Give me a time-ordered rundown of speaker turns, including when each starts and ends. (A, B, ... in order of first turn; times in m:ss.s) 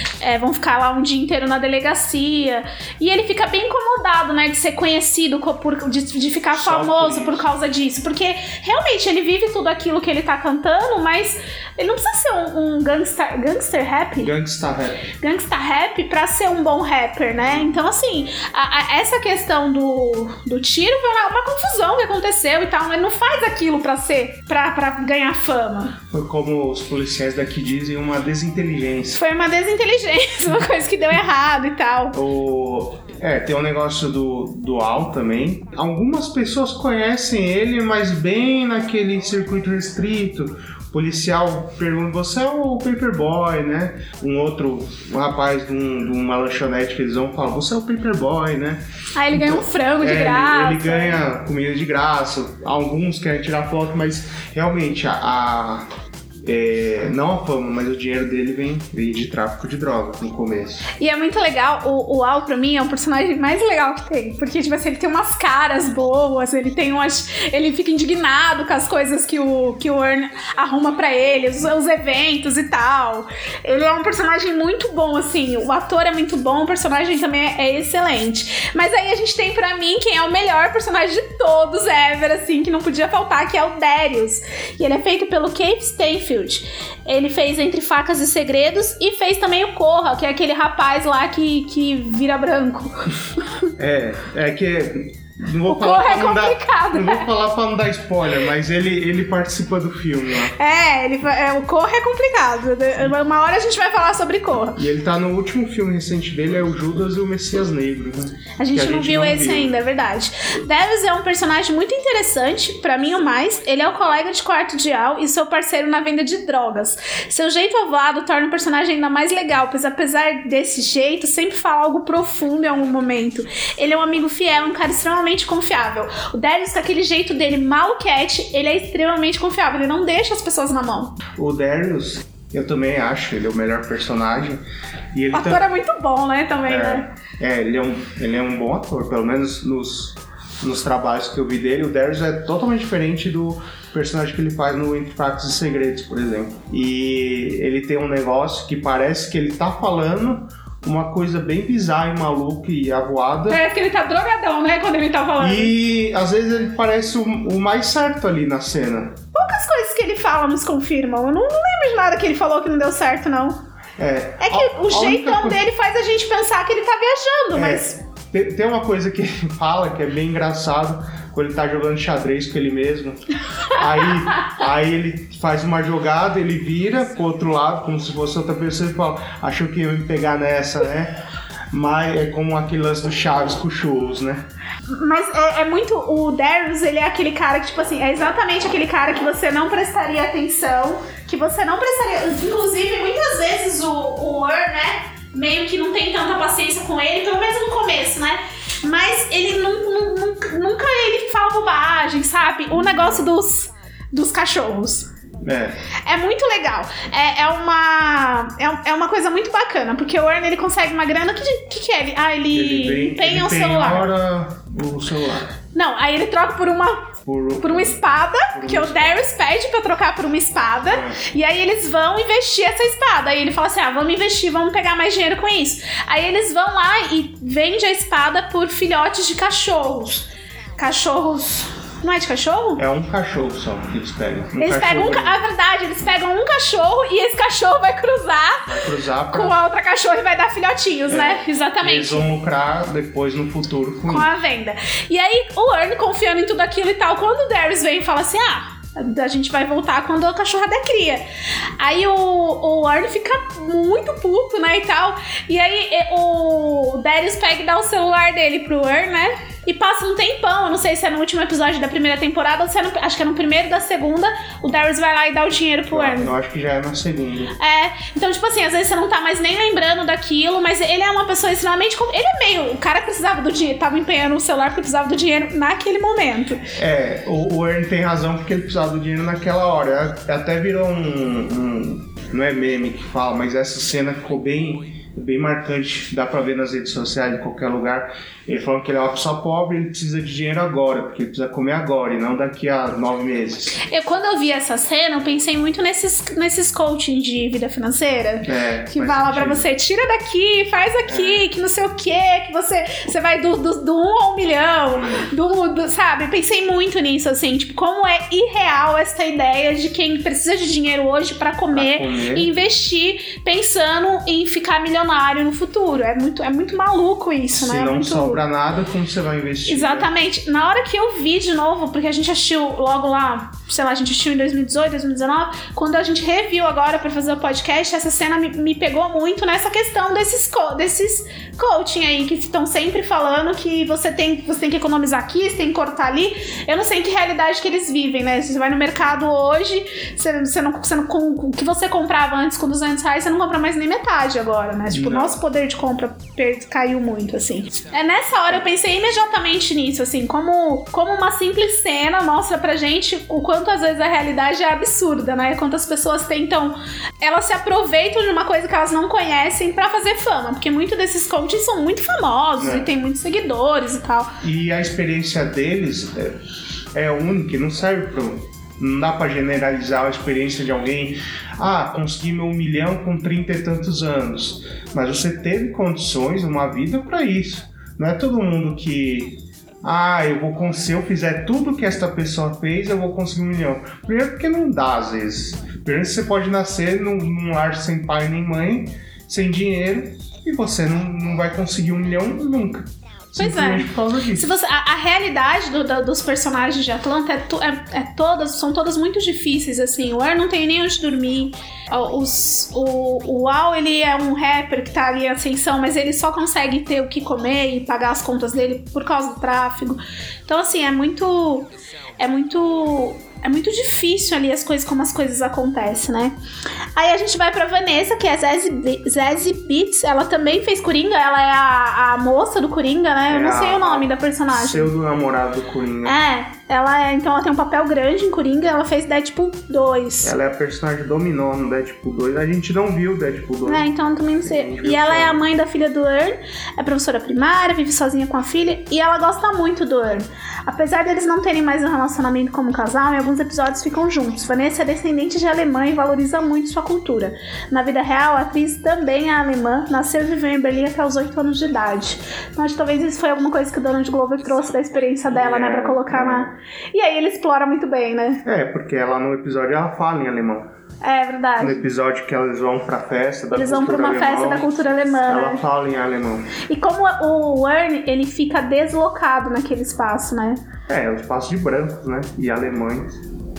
0:00.2-0:14.3 A
0:06.5-0:07.5 B
0:14.2-0:15.1 B
0:15.1-0:26.0 A
0:17.4-0:17.8 B
0:26.1-0:29.2 B
0:29.2-0:32.2 A
0:32.1-0:55.9 B
0:49.2-0:51.2 A
0:56.4-1:00.9 B
1:01.0-1:33.7 A
1:33.8-1:40.6 B
1:35.7-1:37.3 A
1:40.6-1:44.8 A
1:44.8-1:49.7 B
1:48.6-2:11.2 A
2:11.4-2:15.7 B
2:15.3-2:17.1 A
2:16.7-2:33.6 B
2:33.5-2:35.7 A
2:35.4-2:39.2 B
2:39.3-2:43.6 A
2:44.0-2:45.6 B
2:44.4-2:48.0 A
2:47.5-3:01.2 B
3:01.7-3:04.5 B
3:04.9-3:25.1 A
3:22.7-3:23.3 B
3:25.4-3:25.8 B
3:26.1-3:34.1 A
3:32.5-3:35.6 B
3:35.7-3:50.3 A
3:37.2-3:39.2 B
3:40.9-3:41.2 B
3:50.8-3:52.8 A
3:52.8-3:55.4 B
3:54.6-3:58.7 A
3:58.6-3:59.6 B
3:59.3-4:02.3 A
4:01.1-4:04.3 B
4:04.1-4:11.3 A
4:11.8-4:26.3 A
4:25.9-4:27.6 B
4:27.6-4:36.6 A
4:36.8-4:53.8 B
4:53.8-5:18.4 A
4:58.4-4:59.7 B
5:01.1-5:01.5 B
5:04.9-5:05.3 B
5:11.7-5:12.5 B
5:17.6-5:20.1 B
5:19.7-6:04.3 A
5:44.9-5:45.4 B
6:02.6-6:02.9 B
6:04.4-6:06.4 B
6:06.9-6:34.5 B
6:33.4-6:56.4 A
6:57.0-7:04.9 A
7:03.3-7:06.2 B
7:06.0-7:10.3 A
7:10.2-7:13.9 B
7:13.6-7:38.4 A
7:14.4-7:15.4 B
7:35.3-7:36.5 B
7:38.4-7:40.7 B
7:41.0-7:41.8 A
7:41.6-7:46.6 B
7:43.5-7:45.6 A
7:46.6-7:50.6 A
7:50.9-7:53.2 B